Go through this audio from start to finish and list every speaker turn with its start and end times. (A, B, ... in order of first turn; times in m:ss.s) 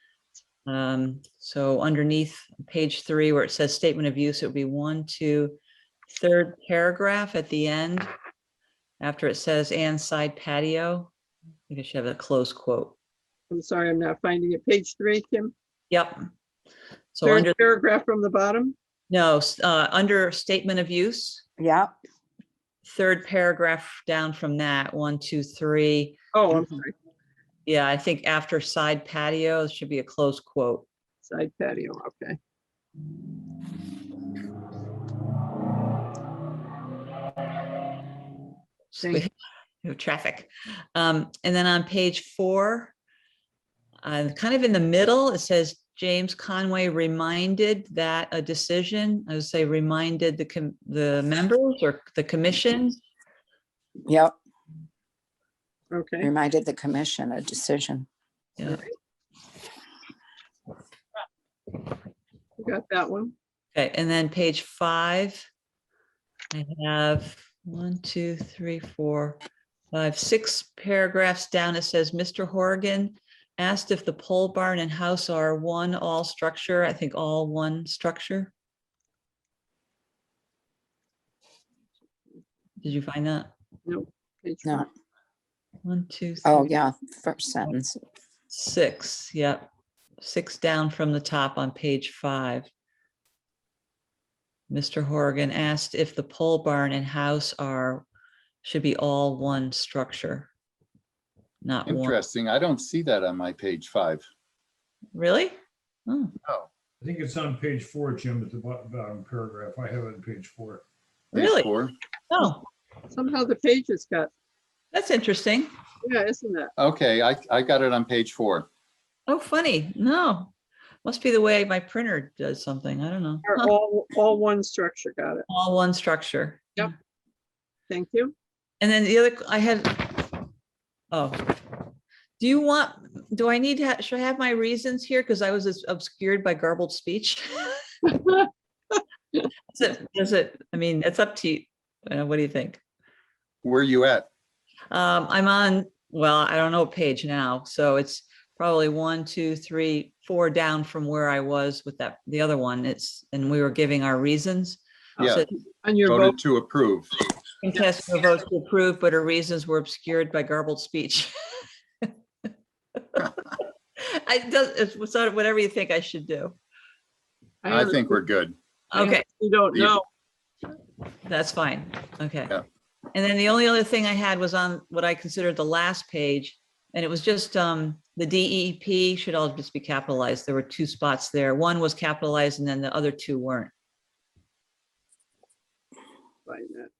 0:00.7-0:05.6 A
0:06.2-0:08.1 A
0:09.0-0:11.1 A
0:11.7-0:12.9 A
0:13.5-0:15.5 B
0:15.9-0:16.3 A
0:17.1-0:17.5 A
0:17.2-0:18.8 B
0:19.1-0:21.4 A
0:21.6-0:21.9 C
0:22.8-0:26.2 A
0:26.3-0:26.9 B
0:27.6-0:30.8 A
0:31.2-0:32.4 B
0:38.9-0:39.3 A
0:39.8-0:42.9 A
0:44.0-0:53.0 A
0:54.0-0:54.3 C
0:55.9-0:56.3 B
0:56.2-0:58.1 C
1:02.6-1:03.3 B
1:03.7-1:05.5 A
1:06.5-1:09.4 A
1:09.9-1:18.5 A
1:22.8-1:23.5 A
1:23.8-1:24.9 B
1:25.8-1:26.7 A
1:26.4-1:28.0 C
1:28.5-1:29.7 A
1:30.2-1:32.7 A
1:34.7-1:38.0 A
1:38.6-1:40.5 A
1:41.6-1:42.2 A
1:41.8-1:44.2 D
1:45.1-1:46.3 A
1:47.0-1:50.8 E
1:51.3-1:51.7 A
1:51.3-1:51.9 D
1:52.3-1:52.7 A
1:53.1-1:54.3 B
1:54.9-1:55.7 A
1:56.0-1:56.7 B
1:56.8-1:58.7 D
1:59.3-2:00.5 A
2:01.0-2:03.7 A
2:03.4-2:05.4 B
2:05.5-2:06.9 A
2:07.9-2:08.3 B
2:08.8-2:10.3 A
2:11.1-2:11.5 A
2:12.4-2:17.8 A
2:19.7-2:22.8 A
2:23.6-2:24.3 D
2:24.9-2:35.5 A
2:35.2-2:36.4 B
2:35.2-2:35.5 D
2:36.0-2:37.1 D
2:37.6-2:42.1 A
2:43.1-2:43.4 A
2:44.0-2:46.6 A
2:47.6-2:48.2 B
2:47.7-2:48.6 D
2:48.9-2:49.2 A
2:48.9-2:50.0 B
2:51.2-2:52.6 A
2:53.1-3:03.7 A
3:06.5-3:06.9 B